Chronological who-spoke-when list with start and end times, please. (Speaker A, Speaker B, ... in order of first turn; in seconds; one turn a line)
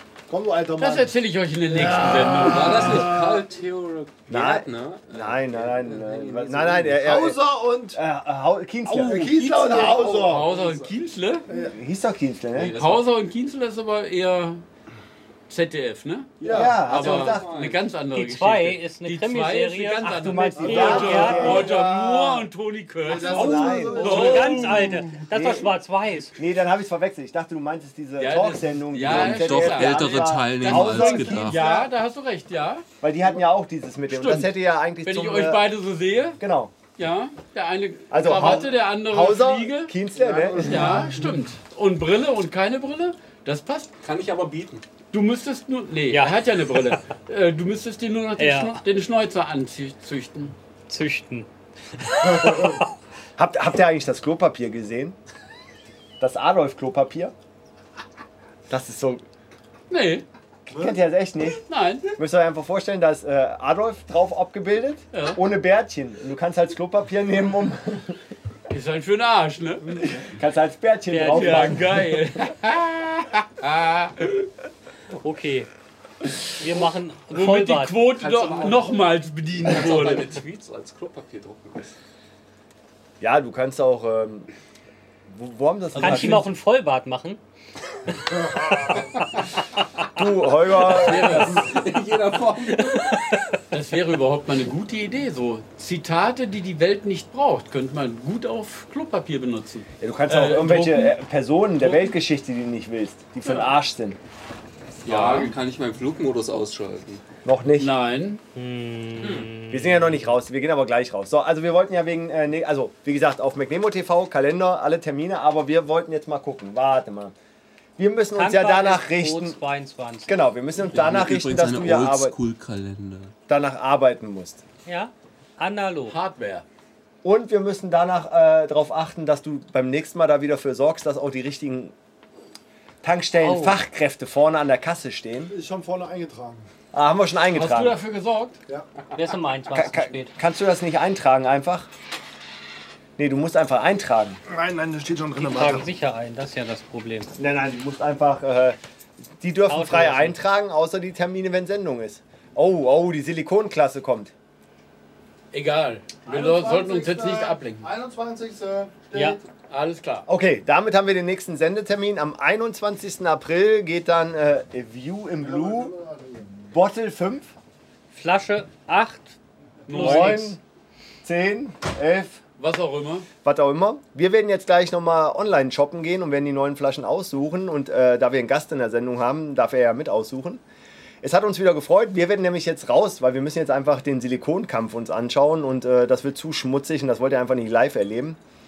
Speaker A: 0.3-1.1
Speaker B: 0.8-3.1
Speaker A: 1.7-3.5
Speaker C: 2.3-7.0
Speaker D: 4.3-10.5
Speaker A: 7.0-8.0
Speaker A: 8.9-10.3
Speaker B: 9.8-11.5
Speaker C: 10.2-10.9
Speaker A: 11.5-11.8
Speaker D: 11.6-12.8
Speaker C: 12.5-13.0
Speaker B: 12.8-14.6
Speaker B: 15.5-25.1
Speaker C: 16.4-17.8
Speaker A: 16.4-16.8
Speaker D: 16.5-17.5
Speaker E: 18.1-21.6
Speaker D: 20.3-22.1
Speaker A: 20.6-22.4
Speaker A: 23.1-25.1
Speaker D: 23.1-25.7
Speaker E: 23.8-26.4
Speaker D: 26.4-31.7
Speaker B: 28.2-32.9
Speaker C: 29.1-31.6
Speaker A: 31.5-31.9
Speaker D: 33.0-35.6
Speaker B: 34.1-34.5
Speaker B: 35.0-36.4
Speaker D: 36.4-36.7
Speaker B: 37.0-39.9
Speaker D: 38.1-41.1
Speaker A: 40.1-41.3
Speaker B: 40.6-43.9
Speaker C: 44.0-44.8
Speaker B: 45.1-50.6
Speaker E: 46.1-46.6
Speaker E: 48.4-48.8
Speaker E: 50.9-52.9
Speaker D: 52.2-52.8
Speaker D: 53.4-55.2
Speaker D: 56.2-57.3
Speaker D: 58.7-59.2
Speaker B: 59.9-60.2
Speaker D: 60.7-68.2
Speaker B: 61.7-62.1
Speaker B: 65.1-65.4
Speaker B: 68.7-70.3
Speaker D: 70.1-72.0
Speaker E: 71.1-71.8
Speaker B: 71.2-74.4
Speaker E: 75.2-75.7
Speaker E: 76.6-78.0
Speaker B: 77.3-80.4
Speaker C: 78.2-79.0
Speaker C: 79.6-81.9
Speaker D: 83.2-84.5
Speaker D: 85.3-86.5
Speaker E: 86.0-87.4
Speaker D: 90.1-91.7
Speaker B: 90.8-91.8
Speaker C: 91.2-93.4
Speaker B: 93.7-101.1
Speaker D: 100.0-104.2
Speaker B: 103.4-103.7
Speaker C: 105.0-107.2
Speaker B: 105.1-105.5
Speaker D: 107.5-107.9
Speaker B: 107.8-108.4
Speaker E: 108.5-110.1
Speaker C: 109.2-109.5
Speaker D: 109.7-117.3
Speaker D: 118.0-119.6
Speaker E: 118.4-120.5
Speaker D: 120.3-122.4
Speaker C: 120.9-123.3
Speaker D: 123.5-124.6
Speaker E: 124.9-126.2
Speaker B: 126.1-126.7
Speaker D: 127.2-131.9
Speaker D: 133.0-135.5
Speaker E: 133.4-133.8
Speaker A: 135.5-136.7
Speaker D: 136.9-138.0
Speaker B: 137.5-138.6
Speaker E: 139.1-140.3
Speaker D: 139.7-141.9
Speaker D: 143.2-144.4
Speaker A: 144.5-145.9
Speaker E: 145.4-147.3
Speaker D: 147.3-148.8
Speaker D: 149.4-154.3
Speaker E: 149.7-150.4
Speaker B: 155.5-157.9
Speaker A: 156.2-159.4
Speaker E: 159.1-159.4
Speaker B: 159.7-160.3
Speaker D: 160.3-165.9
Speaker A: 165.4-166.5
Speaker D: 166.6-167.5
Speaker E: 168.1-169.3
Speaker B: 169.9-170.5
Speaker E: 169.9-170.6
Speaker D: 169.9-170.6
Speaker D: 171.2-172.4
Speaker B: 172.6-173.3
Speaker D: 173.4-180.6
Speaker D: 181.2-188.4